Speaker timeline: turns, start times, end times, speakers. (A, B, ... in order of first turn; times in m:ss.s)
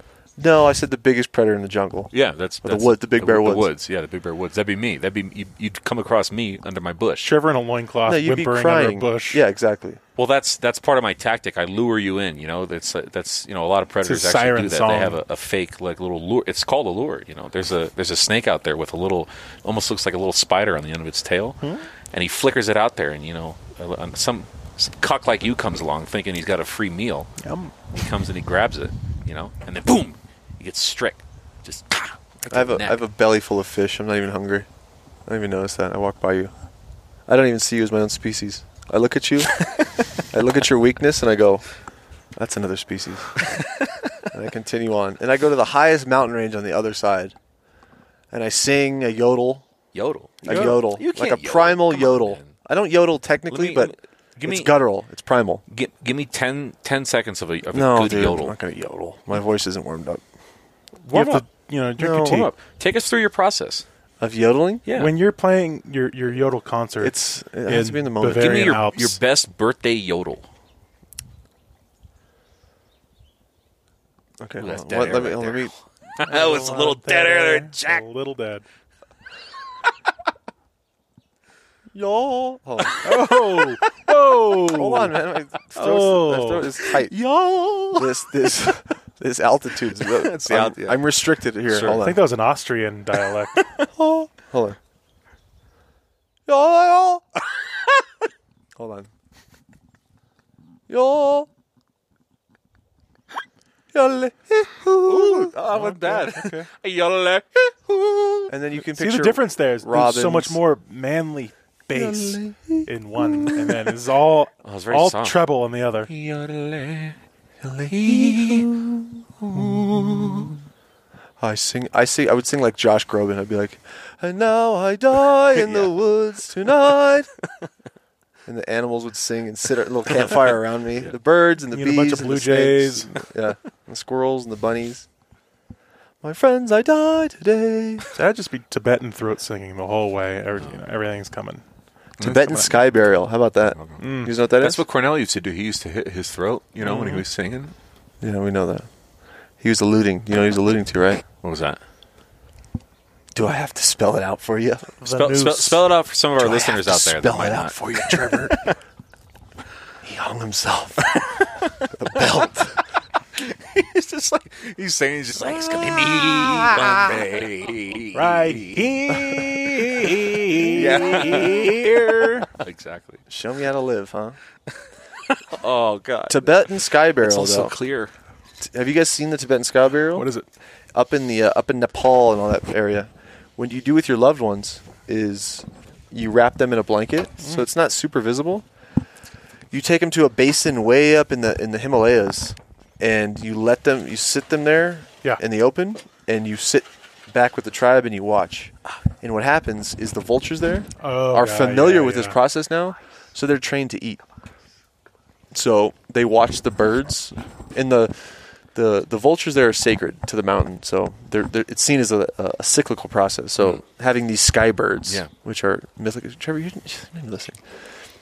0:00.4-0:03.7 A
0:02.1-0:07.3 B
0:07.2-0:09.4 C
0:08.0-0:10.0 A
0:10.2-0:27.3 B
0:14.0-0:15.2 C
0:21.6-0:21.8 C
0:27.4-0:27.7 C
0:27.9-0:33.0 B
0:32.5-0:34.7 A
0:35.2-0:36.5 A
0:37.3-0:39.6 A
0:39.6-0:40.1 B
0:40.2-0:41.6 A
0:42.4-0:43.4 A
0:43.4-0:44.0 B
0:44.3-0:47.3 A
0:48.3-0:49.6 A
0:49.9-0:52.5 B
0:50.4-0:53.9 A
0:53.5-0:54.8 B
0:54.4-0:55.6 A
0:55.7-0:58.5 B
0:57.7-1:00.2 A
1:01.0-1:01.4 B
1:01.1-1:02.5 C
1:02.0-1:02.4 A
1:02.1-1:03.8 B
1:04.2-1:04.8 A
1:04.8-1:05.1 B
1:04.9-1:09.2 C
1:07.0-1:08.8 A
1:08.3-1:10.4 B
1:14.4-1:15.7 A
1:14.6-1:18.0 B
1:16.2-1:18.6 C
1:21.9-1:23.0 A
1:23.0-1:23.9 B
1:23.0-1:25.2 C
1:24.6-1:27.1 A
1:25.7-1:26.7 C
1:26.9-1:28.1 B
1:27.9-1:32.3 A
1:30.0-1:31.0 B
1:31.7-1:32.0 B
1:32.0-1:33.6 C
1:33.9-1:34.8 A
1:36.5-1:37.4 A
1:38.8-1:39.1 A
1:40.9-1:41.5 A
1:43.9-1:45.5 A
1:45.0-1:48.5 B
1:45.7-1:46.7 C
1:48.5-1:50.6 A
1:48.8-1:56.1 C
1:51.9-1:53.9 A
1:54.6-1:55.4 B
1:56.0-1:57.2 B
1:57.6-2:00.5 A
1:57.9-1:58.7 B
1:59.9-2:00.5 B
2:01.4-2:07.3 A
2:05.5-2:05.9 B
2:08.4-2:15.0 A
2:11.7-2:13.1 C
2:16.2-2:18.1 A
2:18.1-2:21.6 C
2:22.2-2:24.8 A
2:22.2-2:22.8 C
2:23.7-2:24.0 B
2:24.0-2:24.3 C
2:24.6-2:27.7 B
2:26.8-2:27.2 C
2:28.2-2:28.9 A
2:29.6-2:31.2 A
2:31.4-2:31.8 B
2:33.3-2:35.0 A
2:35.0-2:35.8 C
2:35.0-2:38.7 B
2:36.4-2:38.6 A
2:40.0-2:41.2 A
2:41.2-2:42.2 B
2:41.9-2:42.8 A
2:43.3-2:48.9 B
2:45.4-2:47.2 A
2:48.1-2:52.5 C
2:49.1-2:49.4 A
2:49.9-2:53.2 B
2:50.6-2:51.7 A
2:53.3-2:54.4 A
2:55.2-2:56.6 B
2:56.3-2:57.7 A
2:57.2-2:58.1 B
2:58.6-3:00.3 A
3:00.1-3:00.4 C
3:00.9-3:08.6 A
3:09.7-3:24.2 A
3:21.0-3:22.4 C
3:25.5-3:37.6 A